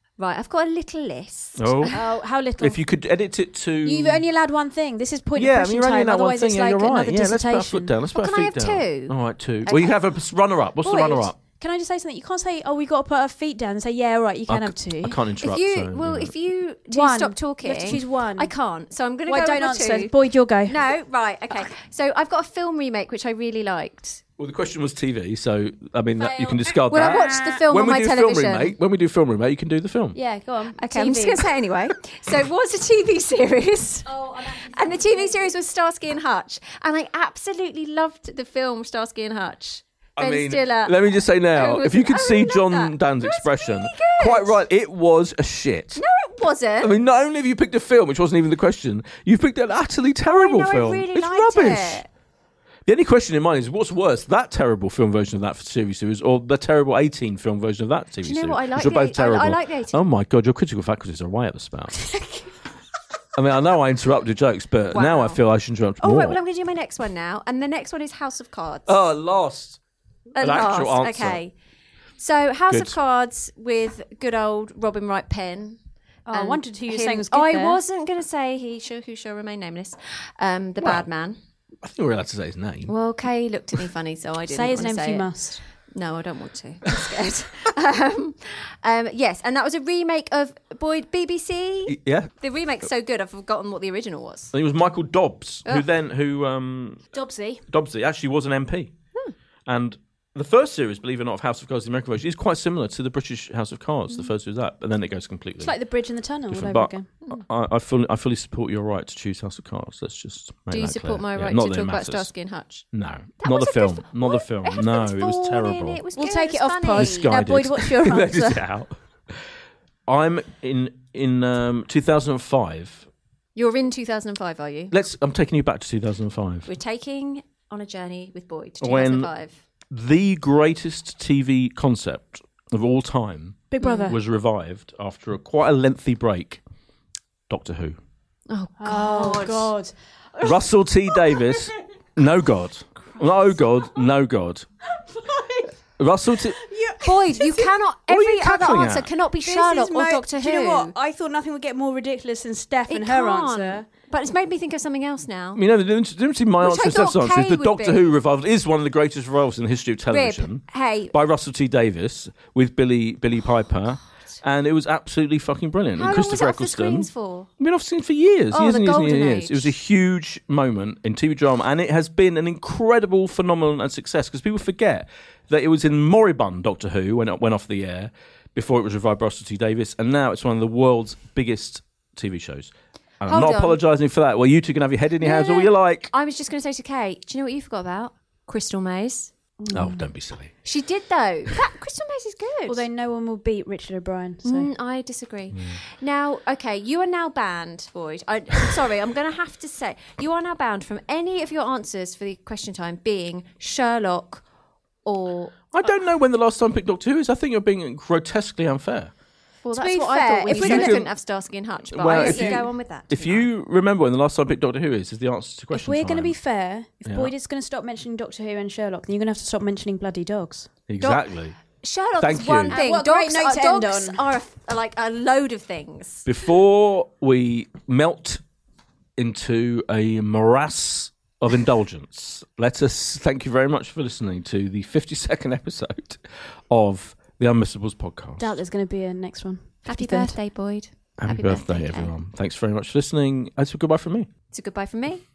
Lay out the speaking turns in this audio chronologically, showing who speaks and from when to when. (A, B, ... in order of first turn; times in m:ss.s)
0:00.2-0:02.1 A
0:01.6-0:02.0 B
0:01.9-0:02.8 C
0:02.6-0:04.2 B
0:03.8-0:07.9 C
0:05.4-0:11.4 B
0:08.1-0:10.0 A
0:10.8-0:15.2 C
0:14.5-0:16.3 B
0:15.4-0:24.2 A
0:16.9-0:18.5 C
0:19.3-0:20.8 C
0:24.4-0:30.2 B
0:26.2-0:27.6 C
0:26.9-0:28.8 A
0:30.1-0:31.4 C
0:30.8-0:41.0 A
0:34.0-0:35.5 C
0:40.2-0:46.0 B
0:41.5-0:44.6 A
0:46.0-0:46.9 A
0:46.8-0:52.0 B
0:50.3-0:52.0 A
0:52.9-1:02.0 B
0:58.2-1:00.0 A
1:03.3-1:06.4 B
1:04.9-1:05.4 A
1:06.0-1:09.0 A
1:08.9-1:09.8 B
1:10.4-1:11.5 A
1:10.4-1:11.4 B
1:12.2-1:15.8 A
1:12.7-1:13.0 B
1:16.3-1:17.8 C
1:16.3-1:21.4 A
1:20.8-1:21.0 B
1:21.8-1:22.9 B
1:22.9-1:25.3 A
1:24.5-1:25.6 C
1:25.9-1:34.5 A
1:31.9-1:32.3 B
1:34.5-1:37.0 B
1:37.1-1:37.6 C
1:37.7-1:38.9 B
1:39.7-1:45.7 B
1:45.6-1:47.1 C
1:46.5-1:52.3 B
1:50.7-1:52.9 A
1:52.9-1:56.0 B
1:53.4-1:57.3 A
1:56.2-1:58.7 C
1:56.9-1:59.4 B
2:00.1-2:03.1 B
2:03.6-2:04.9 A
2:04.9-2:06.7 B
2:06.7-2:09.5 A
2:08.8-2:09.3 B
2:09.9-2:16.6 B
2:13.7-2:14.2 C
2:13.8-2:14.2 A
2:17.5-2:18.0 B
2:18.5-2:19.7 A
2:18.8-2:19.9 C
2:20.4-2:24.7 B
2:23.1-2:23.6 A
2:25.1-2:25.7 C
2:26.0-2:26.6 B
2:26.6-2:27.7 C
2:27.0-2:30.9 A
2:28.1-2:29.1 B
2:29.4-2:33.9 C
2:32.9-2:35.6 A
2:35.6-2:47.1 B
2:36.6-2:38.1 A
2:40.1-2:41.1 A
2:46.0-2:47.5 A
2:47.6-3:06.1 B
2:48.5-2:49.7 A
3:03.3-3:03.8 A
3:05.2-3:09.3 A
3:09.6-3:10.0 C
3:09.7-3:10.5 B
3:10.6-3:12.8 A
3:12.7-3:14.7 C
3:14.4-3:24.4 A
3:15.5-3:15.8 B
3:25.0-3:25.7 A
3:25.7-3:29.1 B
3:29.6-3:33.4 A
3:29.7-3:31.0 C
3:30.5-3:31.1 B
3:31.9-3:36.3 B
3:32.0-3:32.6 C
3:35.7-3:40.7 C
3:37.0-3:37.3 B
3:40.9-3:41.6 B
3:41.0-3:46.3 A
3:42.2-3:42.8 B
3:42.3-3:44.2 C
3:46.3-3:48.4 B
3:49.2-3:58.6 B
3:58.4-4:00.4 C
3:59.9-4:02.1 A
4:01.2-4:04.3 B
4:04.5-4:05.2 A